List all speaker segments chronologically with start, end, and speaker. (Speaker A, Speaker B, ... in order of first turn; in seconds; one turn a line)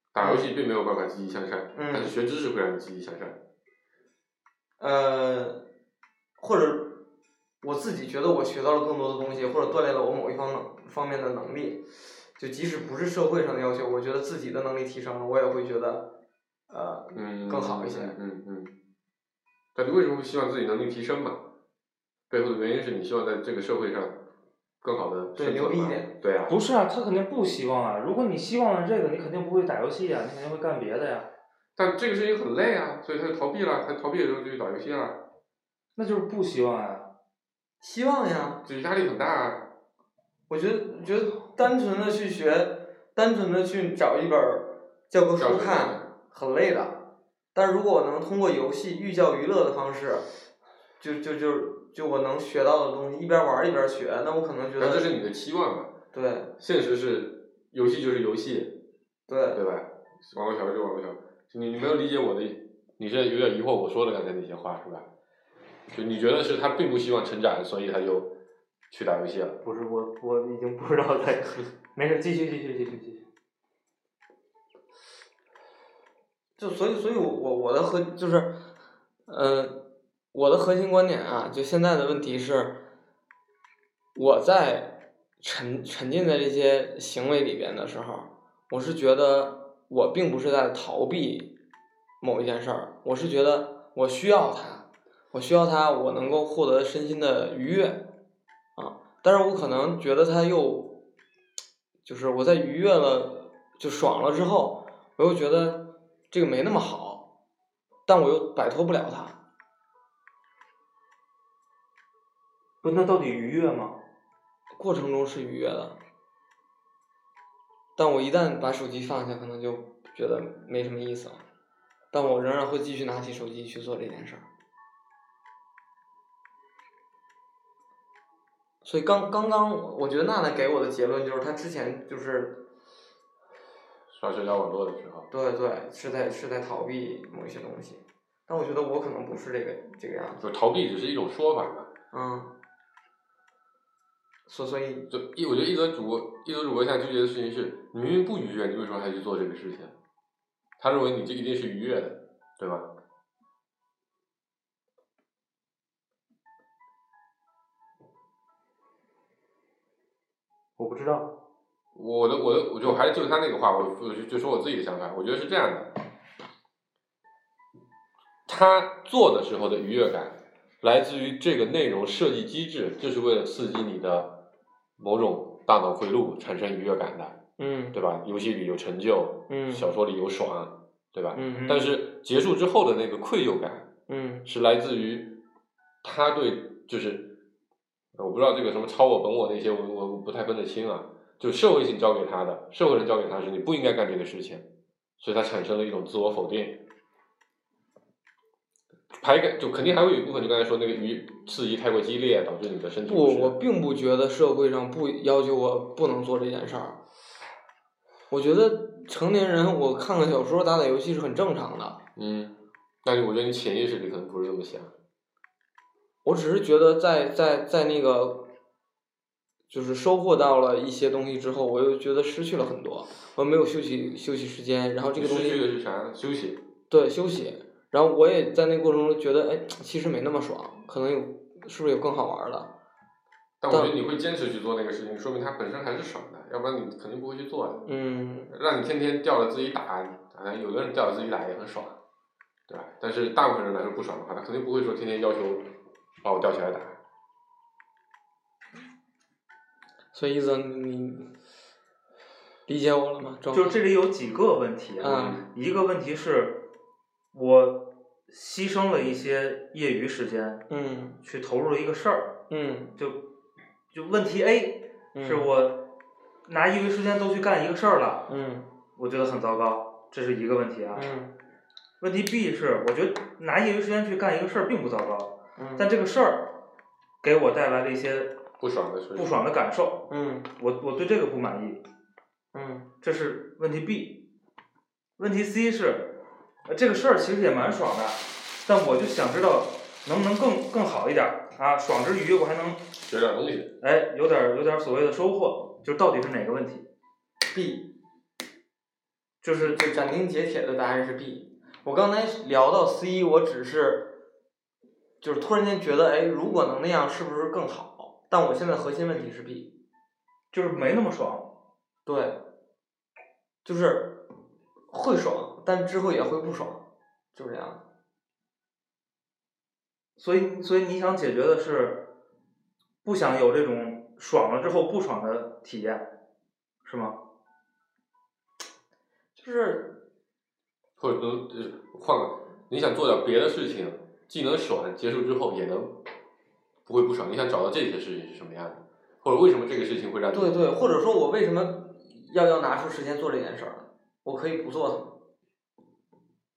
Speaker A: 0.1-3.4
Speaker B: 0.2-0.5
Speaker B: 1.7-2.1
Speaker B: 4.8-5.6
Speaker B: 6.4-7.0
Speaker B: 7.6-11.8
Speaker B: 12.3-16.1
Speaker B: 16.7-18.2
Speaker A: 17.1-18.7
Speaker A: 19.7-21.4
Speaker A: 22.3-24.2
Speaker A: 24.8-26.6
Speaker B: 25.4-26.1
Speaker C: 26.5-31.3
Speaker A: 31.8-35.2
Speaker C: 36.0-37.0
Speaker B: 37.8-38.6
Speaker A: 38.6-39.7
Speaker B: 40.5-47.0
Speaker A: 45.4-46.0
Speaker B: 47.5-50.2
Speaker B: 51.0-55.1
Speaker A: 54.8-55.9
Speaker B: 56.1-56.5
Speaker A: 56.6-58.8
Speaker B: 59.3-59.6
Speaker A: 59.5-65.1
Speaker A: 65.9-68.3
Speaker A: 68.9-69.6
Speaker C: 69.6-73.2
Speaker B: 76.6-78.6
Speaker B: 79.3-82.8
Speaker B: 84.1-91.5
Speaker B: 92.2-98.1
Speaker B: 98.8-101.0
Speaker B: 102.0-107.3
Speaker B: 108.0-109.4
Speaker C: 112.8-114.0
Speaker B: 114.7-116.0
Speaker B: 118.0-121.4
Speaker B: 122.1-124.5
Speaker B: 128.8-132.6
Speaker A: 134.1-135.3
Speaker B: 135.3-140.4
Speaker A: 140.4-141.9
Speaker B: 142.1-142.5
Speaker B: 144.5-145.1
Speaker A: 145.1-149.9
Speaker A: 150.8-152.9
Speaker C: 160.8-161.3
Speaker A: 161.9-165.9
Speaker A: 168.4-174.4
Speaker A: 175.0-177.4
Speaker B: 177.6-177.9
Speaker A: 177.9-183.9
Speaker B: 179.5-179.8
Speaker B: 181.3-181.7
Speaker C: 181.5-181.8
Speaker B: 184.1-184.5
Speaker A: 184.4-185.4
Speaker A: 186.0-187.4
Speaker A: 188.1-194.7
Speaker A: 195.2-196.8
Speaker A: 199.1-203.6
Speaker B: 203.1-207.0
Speaker B: 208.3-212.0
Speaker A: 212.2-214.9
Speaker B: 216.2-218.5
Speaker B: 219.7-225.6
Speaker A: 225.1-226.6
Speaker B: 226.9-232.7
Speaker A: 233.6-237.9
Speaker B: 237.8-238.5
Speaker A: 238.5-242.0
Speaker A: 242.7-245.7
Speaker A: 246.2-247.0
Speaker B: 250.1-251.3
Speaker B: 252.7-253.8
Speaker C: 253.5-256.7
Speaker B: 255.0-255.4
Speaker C: 257.3-260.6
Speaker B: 260.7-261.2
Speaker C: 261.2-262.4
Speaker B: 262.5-262.9
Speaker C: 263.0-263.2
Speaker C: 263.9-265.9
Speaker B: 265.1-265.5
Speaker C: 266.4-268.3
Speaker B: 268.3-268.7
Speaker C: 268.9-271.1
Speaker B: 270.9-271.3
Speaker C: 272.0-276.6
Speaker B: 275.6-275.9
Speaker C: 277.2-278.4
Speaker A: 278.6-279.3
Speaker C: 279.1-281.8
Speaker B: 280.1-280.5
Speaker B: 282.5-282.9
Speaker C: 283.0-284.3
Speaker C: 285.2-292.8
Speaker A: 293.0-293.7
Speaker C: 293.8-296.9
Speaker B: 297.5-297.9
Speaker C: 299.4-299.8
Speaker B: 299.6-304.1
Speaker B: 305.2-309.7
Speaker C: 310.5-311.5
Speaker B: 312.1-312.4
Speaker B: 313.6-314.2
Speaker B: 314.9-316.8
Speaker B: 317.3-317.8
Speaker C: 320.2-322.1
Speaker C: 323.0-326.1
Speaker C: 326.8-327.1
Speaker B: 329.4-330.0
Speaker A: 331.0-335.9
Speaker A: 336.9-340.6
Speaker B: 340.3-345.1